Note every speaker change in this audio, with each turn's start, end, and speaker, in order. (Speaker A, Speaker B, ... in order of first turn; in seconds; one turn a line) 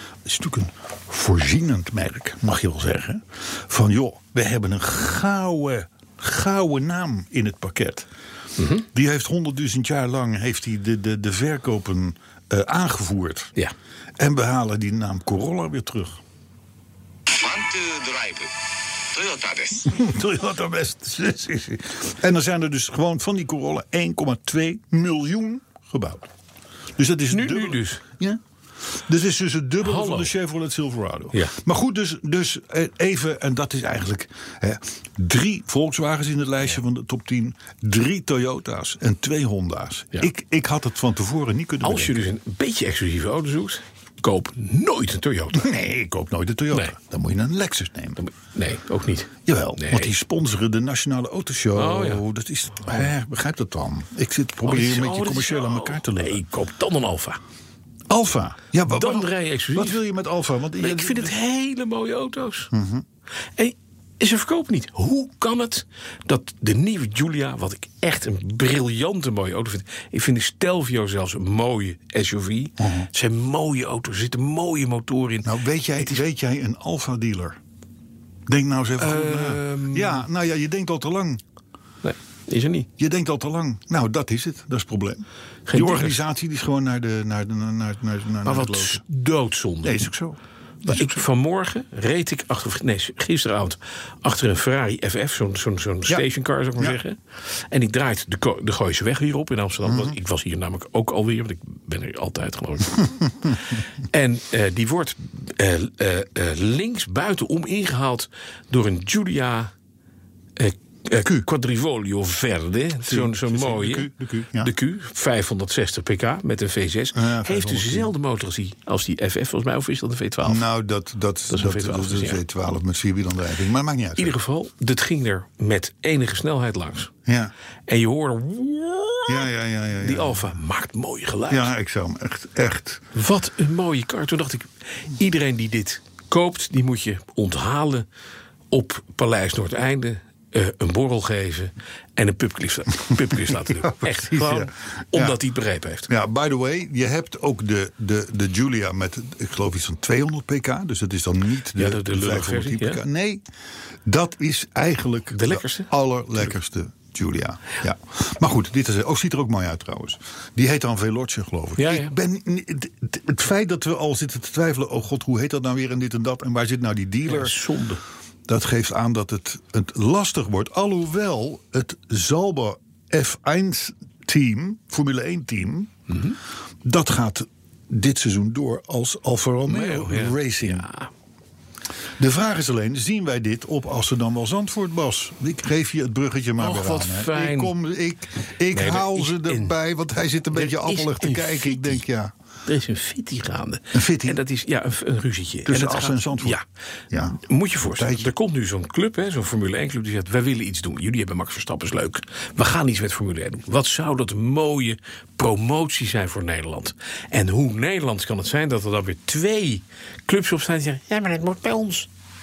Speaker A: 0.2-8.1
Speaker B: 8.6-8.8
Speaker A: 8.8-13.5
Speaker A: 14.2-16.2
Speaker C: 17.3-18.5
Speaker C: 19.1-19.9
Speaker A: 19.9-26.3
Speaker A: 27.0-28.4
Speaker B: 27.3-28.0
Speaker A: 29.0-42.1
Speaker B: 29.8-30.3
Speaker B: 41.8-45.8
Speaker A: 45.5-48.2
Speaker B: 48.2-50.1
Speaker A: 49.5-56.4
Speaker B: 51.7-52.2
Speaker B: 54.6-57.4
Speaker A: 58.1-61.3
Speaker B: 58.9-60.0
Speaker B: 60.8-62.7
Speaker A: 62.7-63.0
Speaker B: 63.5-76.2
Speaker A: 72.8-73.1
Speaker A: 75.5-77.6
Speaker A: 78.5-81.4
Speaker B: 79.0-80.2
Speaker B: 82.0-82.9
Speaker A: 83.0-89.0
Speaker B: 85.7-86.2
Speaker B: 88.4-90.1
Speaker A: 89.8-91.2
Speaker B: 90.8-103.5
Speaker A: 99.9-100.1
Speaker B: 104.1-109.7
Speaker B: 110.6-120.7
Speaker A: 113.0-114.7
Speaker A: 117.2-118.1
Speaker A: 120.4-124.3
Speaker B: 121.5-122.4
Speaker B: 124.2-127.1
Speaker A: 127.3-127.5
Speaker B: 127.9-131.7
Speaker A: 129.3-130.5
Speaker A: 131.5-133.1
Speaker B: 133.1-138.1
Speaker B: 138.7-146.1
Speaker A: 143.6-145.4
Speaker A: 146.1-153.4
Speaker B: 151.8-153.0
Speaker A: 154.1-167.6
Speaker B: 155.3-156.5
Speaker B: 161.8-162.2
Speaker B: 167.2-168.0
Speaker A: 168.5-175.9
Speaker B: 176.1-176.4
Speaker A: 176.8-180.9
Speaker B: 179.7-181.1
Speaker A: 182.2-192.3
Speaker B: 186.6-187.7
Speaker B: 188.7-189.8
Speaker B: 190.5-192.0
Speaker B: 192.7-196.6
Speaker A: 193.9-194.4
Speaker A: 195.7-196.6
Speaker A: 197.1-198.3
Speaker B: 197.4-212.1